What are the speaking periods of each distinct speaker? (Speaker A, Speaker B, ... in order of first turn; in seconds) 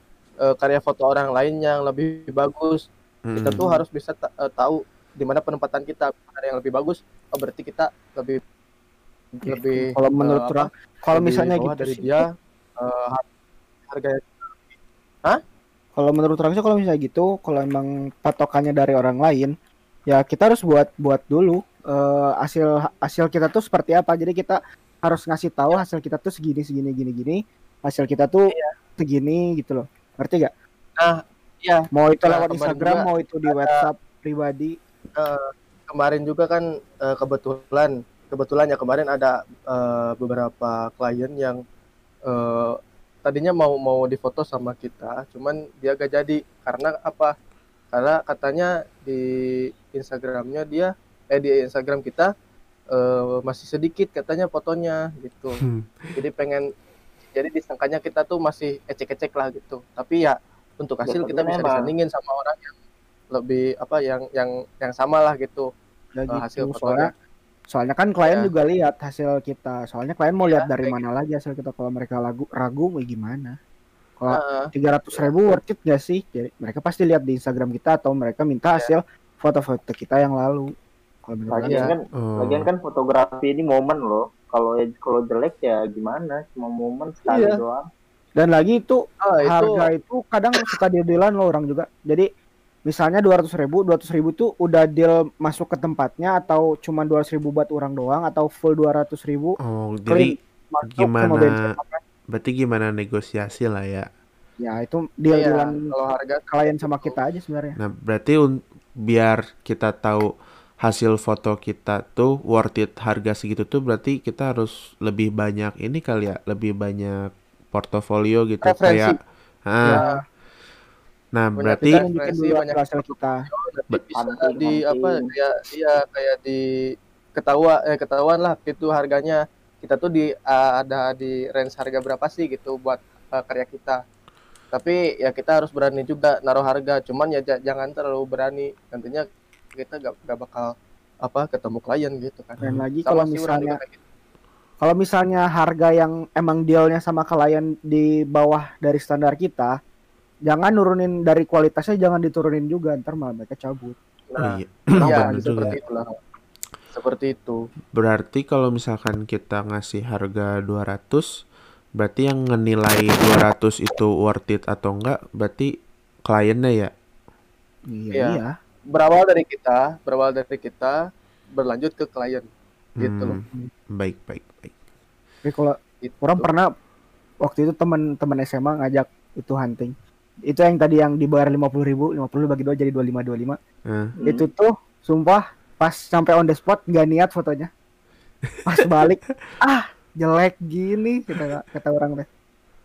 Speaker A: 0.5-2.8, 3.4-8.4, 9.3-13.2, 13.9-14.6, 31.0-33.8, 35.2-41.6, 42.3-47.3, 47.9-52.3, 52.9-55.6, 56.2-56.6, 57.3-62.7, 63.3-65.7, 66.3-67.1, 68.3-68.5, 70.4-71.0, 74.3-74.7, 81.7-81.9, 87.3-87.6, 89.3-89.8, 105.3-107.2, 118.7-119.2, 119.8-120.2, 121.6-126.6, 127.4-134.0, 134.7-139.3, 139.8-140.7, 141.2-144.0, 155.0-156.1, 156.9-157.6, 168.2-168.4, 168.9-171.0, 171.6-172.5, 173.0-173.3, 176.0-176.5
Speaker B: 3.3-3.6, 55.6-56.0, 82.1-82.7, 99.6-100.3, 100.9-101.5, 102.3-104.1, 107.8-108.5, 109.0-110.3, 110.8-119.1, 119.7-120.0, 121.3-122.0, 154.4-155.8, 157.9-161.3, 162.0-165.7, 166.3-166.9, 173.0-173.4, 173.9-174.8, 183.9-184.1
Speaker C: 3.5-3.8, 9.5-12.2, 16.0-19.5, 20.1-28.5, 29.0-30.5, 31.9-34.8, 66.2-67.1, 67.7-73.6, 74.2-80.7, 81.3-81.9, 88.4-92.3, 92.9-99.6, 100.1-102.0, 104.6-105.8, 106.5-107.8, 119.9-120.2, 121.8-123.4, 142.6-143.8, 144.8-149.7, 150.5-154.0, 167.9-168.5, 175.4-176.7, 177.4-179.9, 180.5-183.6, 184.2-187.7, 188.7-192.3
Speaker D: 61.0-61.9, 81.5-87.8, 124.2-125.3, 154.3-155.5, 184.2-184.5